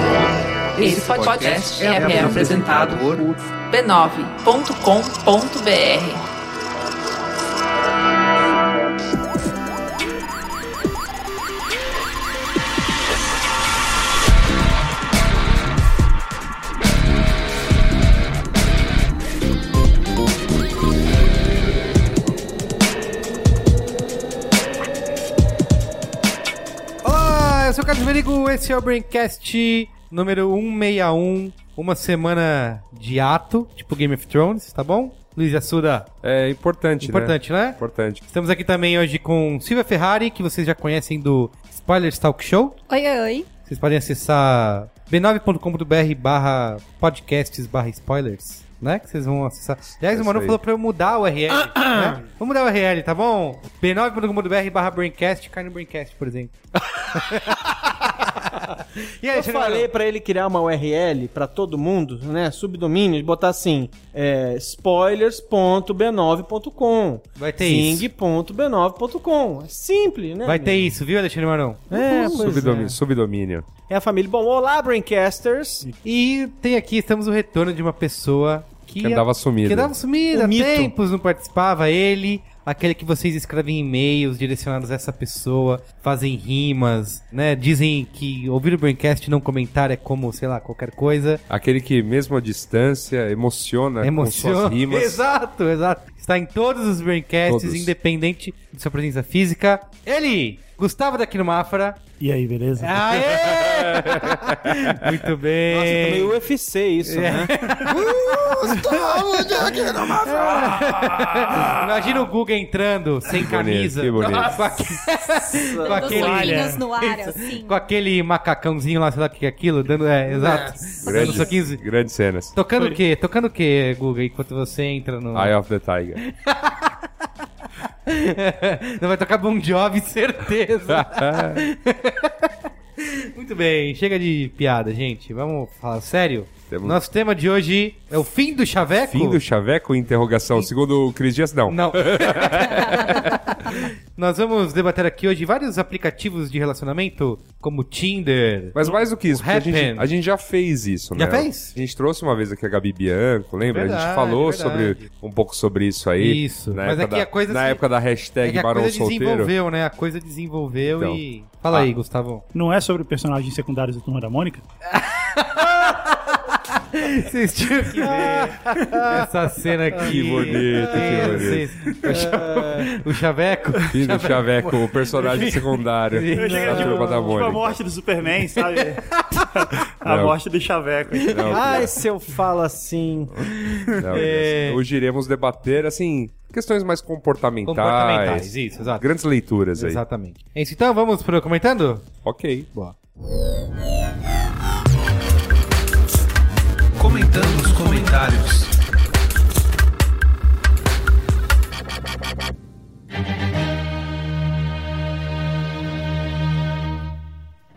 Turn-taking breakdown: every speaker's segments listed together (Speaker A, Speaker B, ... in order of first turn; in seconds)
Speaker A: 0.1-3.0, 36.2-38.2, 50.1-50.6, 72.2-73.7, 79.0-79.9, 91.5-95.2, 97.5-97.9, 103.4-105.1, 113.3-114.6, 121.0-122.5, 125.3-126.2, 130.9-131.6, 136.7-137.0, 139.1-143.2, 148.8-159.5, 161.0-161.9, 170.0-171.8, 173.9-177.7, 180.1-180.4, 181.3-181.9, 184.0-190.0, 192.2-192.7, 198.0-198.4
Speaker B: 0.8-6.3
Speaker C: 1.8-3.4, 51.7-52.2, 59.3-71.0, 71.9-73.0, 73.9-75.9, 80.3-80.9, 105.7-111.7, 115.6-116.4, 168.0-169.3, 170.1-171.4, 172.0-173.0, 181.5-183.5, 197.2-198.3
Speaker D: 27.0-36.1, 37.0-42.8, 43.6-59.9, 67.4-68.1, 70.4-72.9, 76.0-91.4, 94.0-102.0, 102.8-106.4, 107.0-121.8, 122.5-125.6, 126.2-127.1, 128.1-139.4, 141.7-150.1, 151.2-151.8, 153.6-155.1, 156.2-157.8, 158.4-162.4, 164.9-177.3, 178.8-179.8, 183.6-184.8, 187.7-189.1, 189.7-192.1
Speaker E: 42.9-43.5, 115.8-117.8
Speaker F: 102.2-103.5, 110.8-111.6, 116.0-116.8, 162.5-164.7, 176.3-181.8